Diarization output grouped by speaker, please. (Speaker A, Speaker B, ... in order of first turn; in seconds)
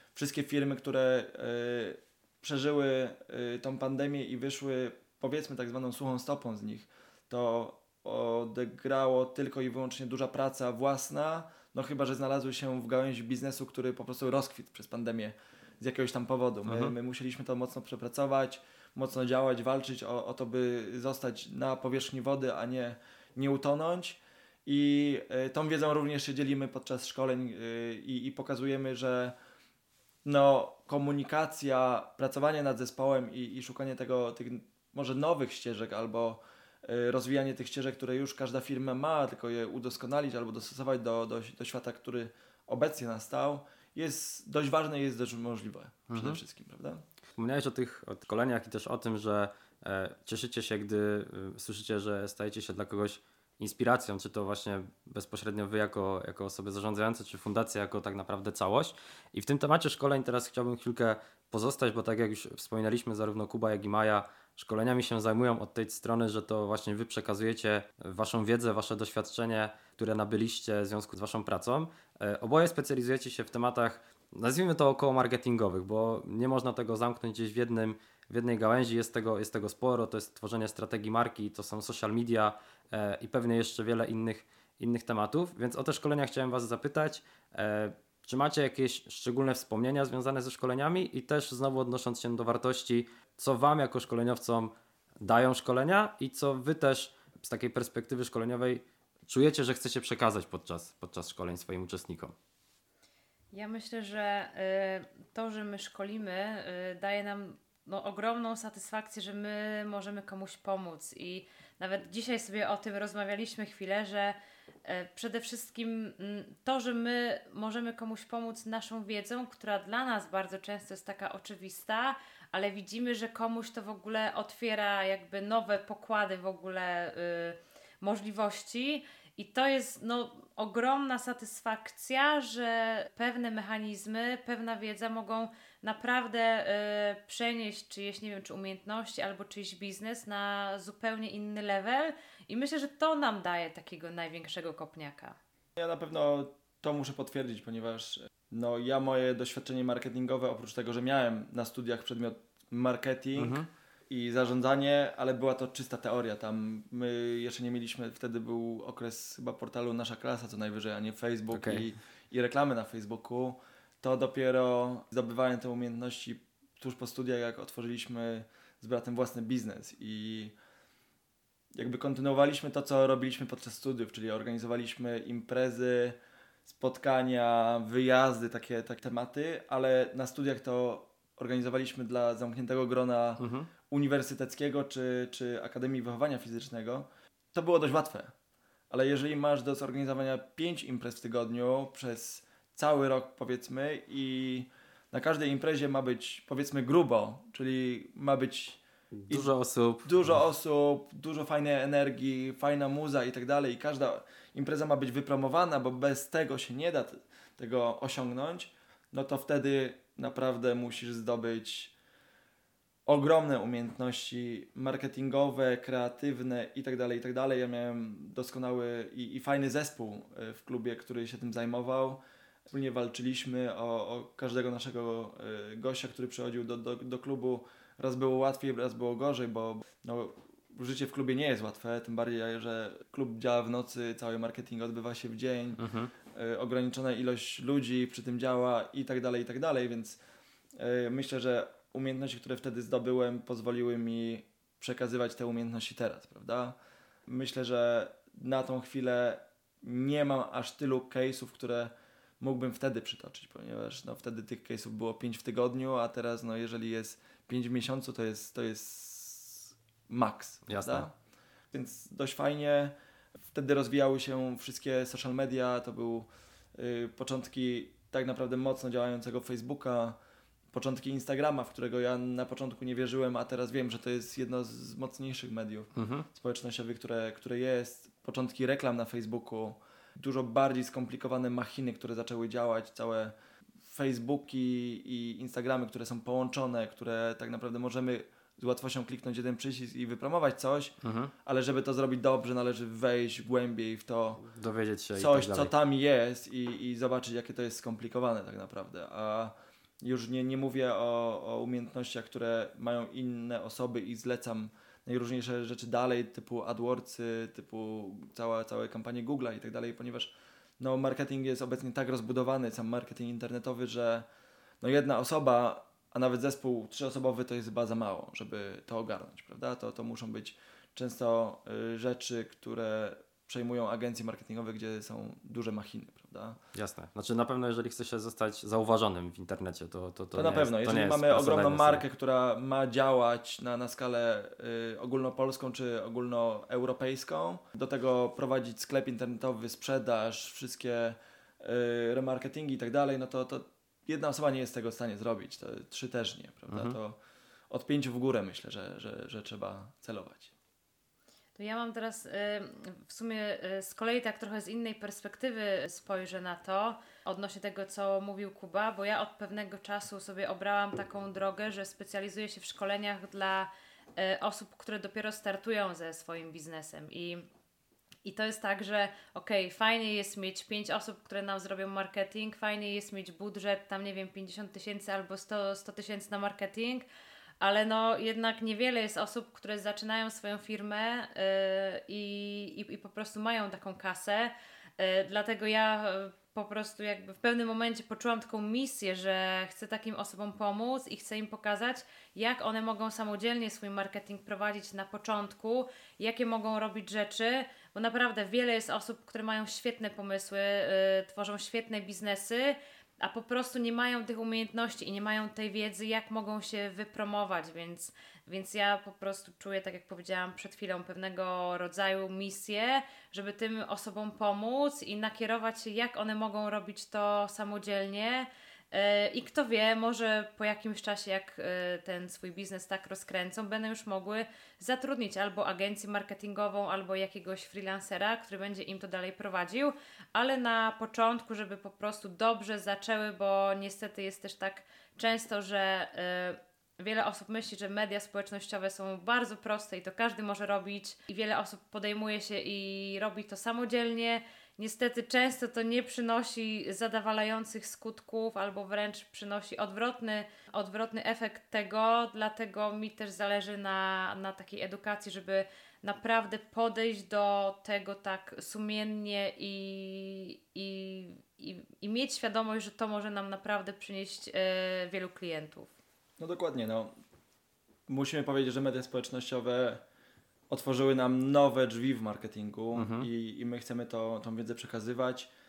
Speaker A: 0.1-29.4, 30.2-47.0, 145.8-170.5, 171.7-188.3, 188.9-199.5, 200.0-211.9, 213.1-240.2, 240.7-261.1, 261.7-262.9, 263.5-270.2, 270.7-294.4, 295.1-314.2, 314.8-326.6, 330.3-347.2, 347.7-350.5, 466.4-467.1, 468.1-470.0, 470.7-475.5
Speaker B: 16.7-16.9, 46.1-46.4, 47.4-102.3, 153.3-153.7, 161.5-161.8, 183.4-183.7, 199.2-200.1, 235.8-236.1, 260.7-261.1, 275.9-276.3, 291.0-291.3, 294.5-295.7, 326.7-332.0, 346.7-347.0, 472.9-473.3
Speaker C: 103.5-145.3, 351.6-367.4, 368.2-377.0, 377.6-465.9